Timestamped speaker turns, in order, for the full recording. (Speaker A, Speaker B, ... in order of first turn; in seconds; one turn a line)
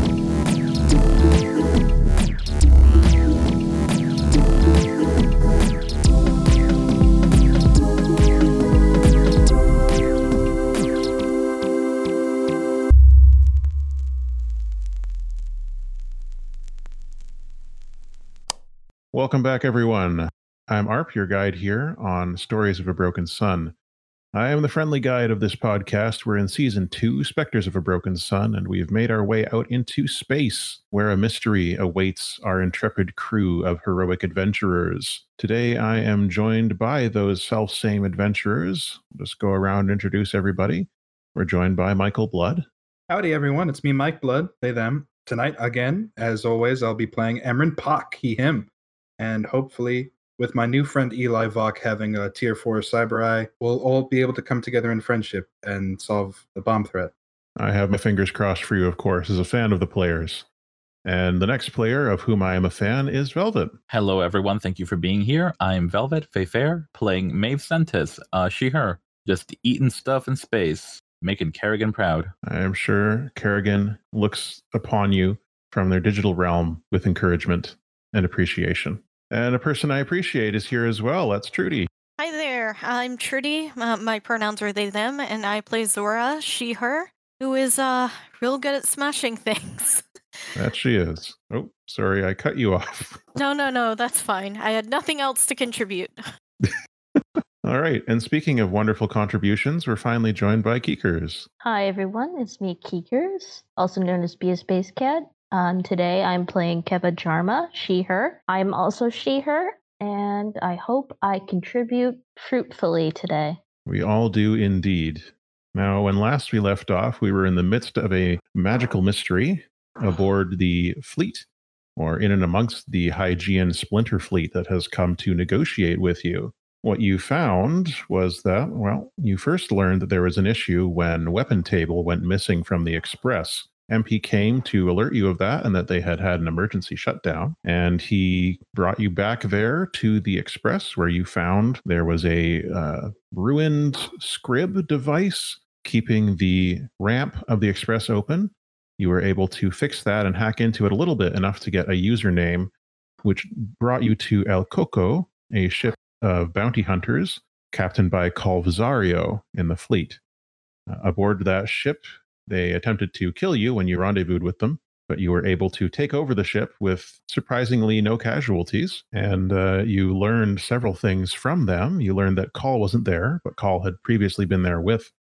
Speaker A: 19.1-23.7
Speaker A: 24.3-42.6
Speaker B: 43.1-57.1
Speaker A: 57.6-60.5
Speaker A: 61.0-63.7
Speaker C: 63.9-72.3
Speaker A: 72.4-81.9
Speaker D: 82.2-90.0
Speaker A: 90.6-93.2
Speaker D: 93.3-96.2
Speaker A: 96.6-101.5
Speaker E: 101.6-113.6
Speaker A: 113.8-152.7
Speaker A: 153.2-160.2
Speaker A: 160.9-175.1